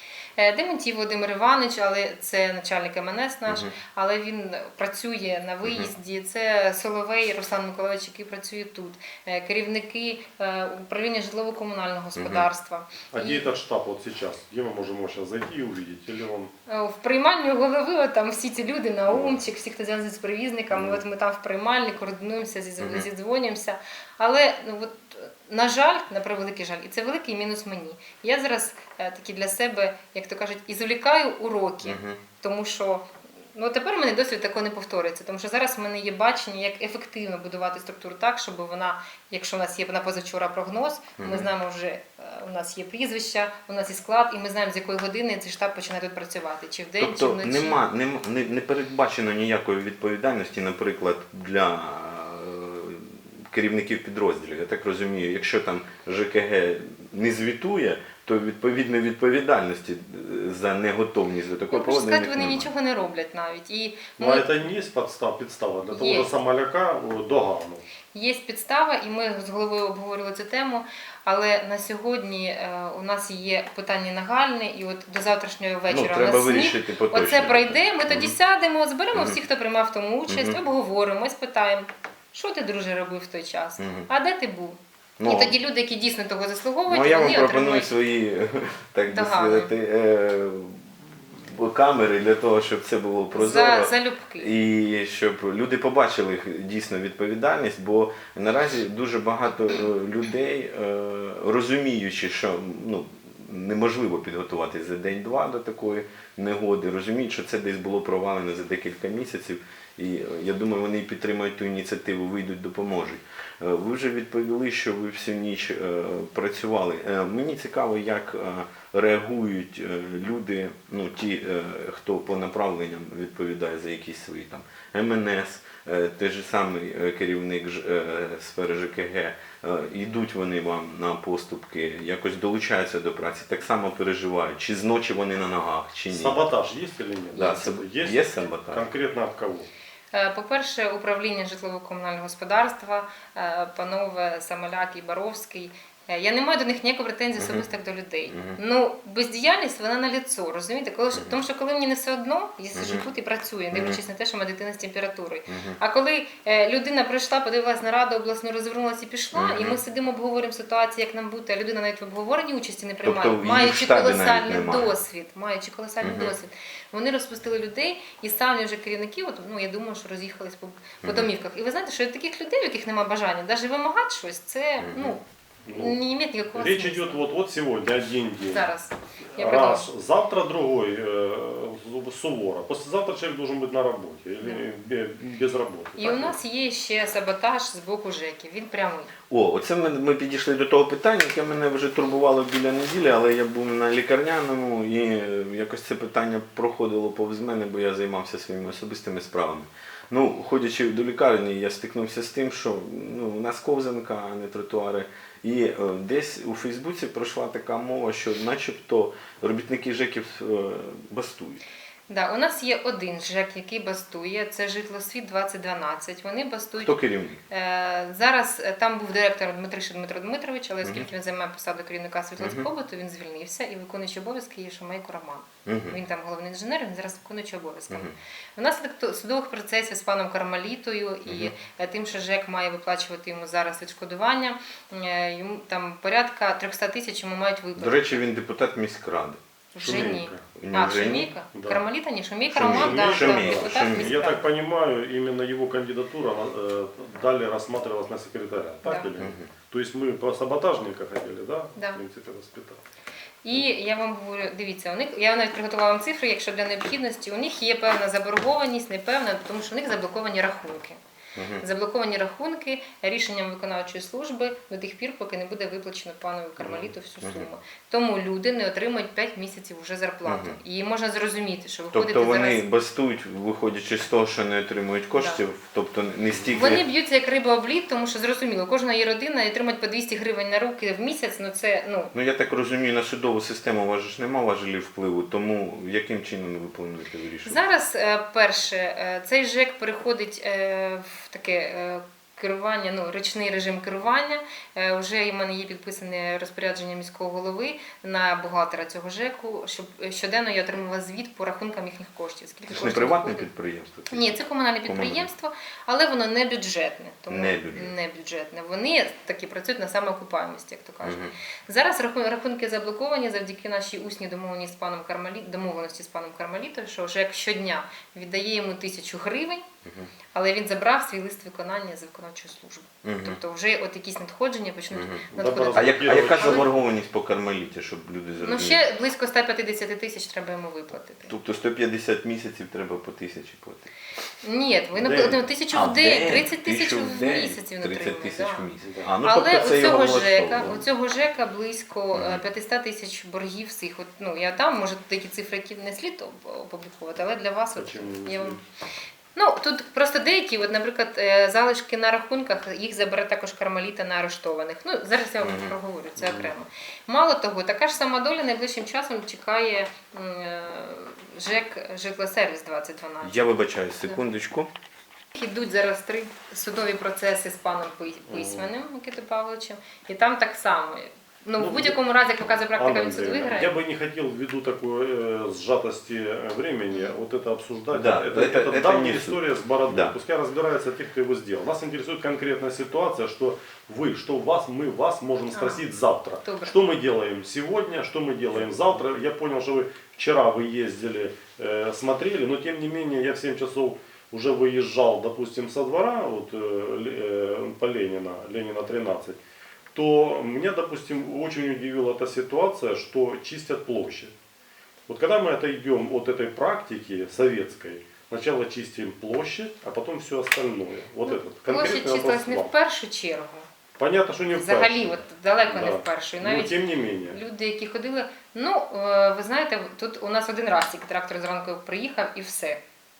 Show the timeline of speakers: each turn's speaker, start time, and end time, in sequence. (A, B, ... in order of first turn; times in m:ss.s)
0:00.4-0:13.4 A
0:03.5-0:03.7 B
0:05.6-0:05.9 B
0:12.2-0:12.5 B
0:13.1-0:16.5 C
0:16.7-0:47.8 A
0:20.7-0:21.0 C
0:22.8-0:23.1 B
0:31.8-0:32.2 B
0:41.2-0:41.5 B
0:47.0-1:02.7 B
1:01.7-1:04.5 A
1:04.2-1:07.8 C
1:05.9-1:06.3 A
1:08.1-1:27.9 A
1:15.9-1:18.3 B
1:20.3-1:20.6 B
1:23.8-1:24.0 B
1:25.2-1:25.5 B
1:26.9-2:16.4 B
1:29.1-1:29.7 A
1:33.3-1:34.5 A
2:16.1-2:19.7 C
2:17.3-2:18.8 B
2:20.1-2:55.2 A
2:27.4-2:27.6 B
2:28.3-2:28.6 B
2:32.7-2:33.0 B
2:33.7-2:34.0 B
2:35.5-2:35.8 B
2:39.3-2:39.8 B
2:43.0-2:44.9 B
2:46.0-2:46.3 B
2:51.0-2:51.3 B
2:54.8-2:55.2 B
2:55.6-2:56.0 C
2:55.7-2:57.2 A
2:56.5-2:58.7 C
2:58.5-2:59.9 A
2:59.4-3:06.4 C
3:06.0-3:09.1 A
3:09.3-3:31.6 B
3:32.1-3:37.0 A
3:36.8-3:37.4 B
3:37.5-3:58.2 A
3:40.8-3:41.1 B
3:42.4-3:42.6 B
3:45.6-3:46.0 B
3:51.2-3:51.5 B
3:57.8-3:59.4 B
3:59.7-4:04.4 A
3:59.8-4:00.4 C
4:00.6-4:01.3 B
4:01.5-4:01.8 C
4:02.5-4:04.1 B
4:02.6-4:12.8 C
4:09.2-4:09.5 B
4:13.4-4:21.0 A
4:21.3-4:21.6 B
4:21.6-4:32.6 A
4:26.6-4:26.9 C
4:27.2-4:27.5 B
4:30.2-4:30.6 B
4:31.9-4:36.8 B
4:36.5-4:42.1 A
4:42.1-4:47.6 B
4:47.4-5:03.4 A
5:02.7-5:04.4 B
5:04.1-5:19.6 A
5:04.9-5:05.3 B
5:07.3-5:07.9 B
5:11.0-5:11.3 B
5:20.3-5:26.7 A
5:23.0-5:23.4 B
5:24.9-5:28.8 B
5:25.4-5:26.7 C
5:28.4-5:31.3 A
5:31.3-5:33.9 B
5:34.4-5:38.6 A
5:35.0-5:35.4 C
5:35.7-5:40.8 B
5:38.8-5:39.1 C
5:39.2-5:48.6 A
5:42.1-5:42.4 B
5:47.8-5:48.6 C
5:49.3-6:03.5 A
5:55.4-5:55.7 B
5:56.2-5:56.5 C
6:03.2-6:04.7 B
6:05.3-6:13.8 A
6:08.3-6:08.7 C
6:11.6-6:12.0 C
6:12.7-6:39.4 C
6:16.9-6:17.2 A
6:17.9-6:20.1 B
6:25.5-6:25.8 A
6:26.4-6:26.8 A
6:39.9-6:44.3 C
6:45.1-6:52.7 C
6:51.2-6:53.7 A
6:54.0-6:57.4 C
6:54.5-6:56.8 A
6:57.3-7:02.8 A